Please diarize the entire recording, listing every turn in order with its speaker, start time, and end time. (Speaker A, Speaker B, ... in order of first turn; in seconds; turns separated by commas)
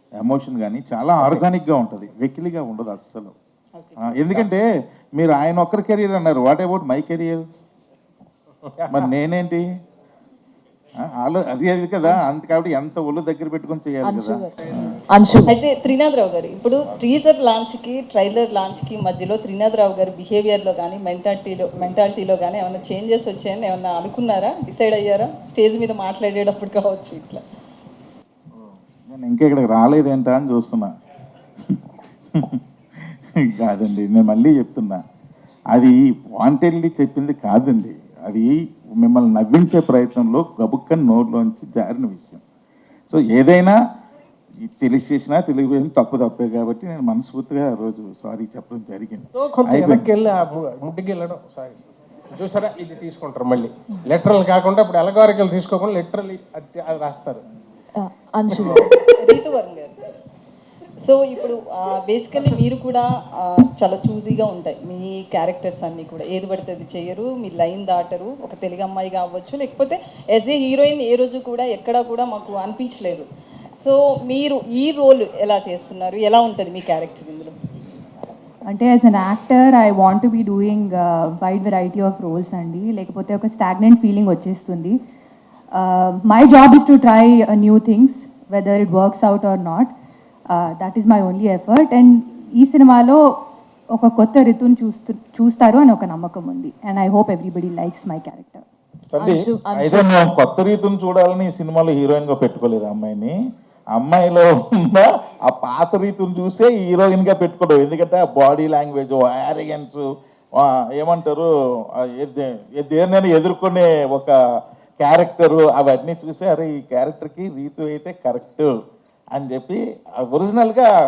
Speaker A: 0.2-3.4, Speaker B: 1.2-1.4, Speaker C: 3.8-4.5, Speaker A: 4.0-7.4, Speaker B: 8.7-9.1, Speaker A: 8.9-9.7, Speaker A: 11.0-14.9, Speaker D: 14.0-14.6, Speaker D: 15.1-15.6, Speaker C: 15.5-27.4, Speaker A: 29.1-30.9, Speaker A: 32.4-35.0, Speaker A: 35.7-42.4, Speaker A: 43.1-43.8, Speaker A: 44.6-50.1, Speaker B: 49.4-51.8, Speaker B: 52.3-57.4, Speaker D: 58.0-58.9, Speaker B: 58.5-58.8, Speaker C: 59.2-59.9, Speaker C: 61.0-73.3, Speaker C: 73.8-77.6, Speaker E: 78.7-85.0, Speaker E: 85.8-90.0, Speaker E: 90.5-93.2, Speaker E: 94.0-98.6, Speaker A: 99.1-103.3, Speaker D: 99.2-100.2, Speaker A: 103.9-110.0, Speaker A: 110.6-114.4, Speaker A: 115.0-118.7, Speaker A: 119.3-120.9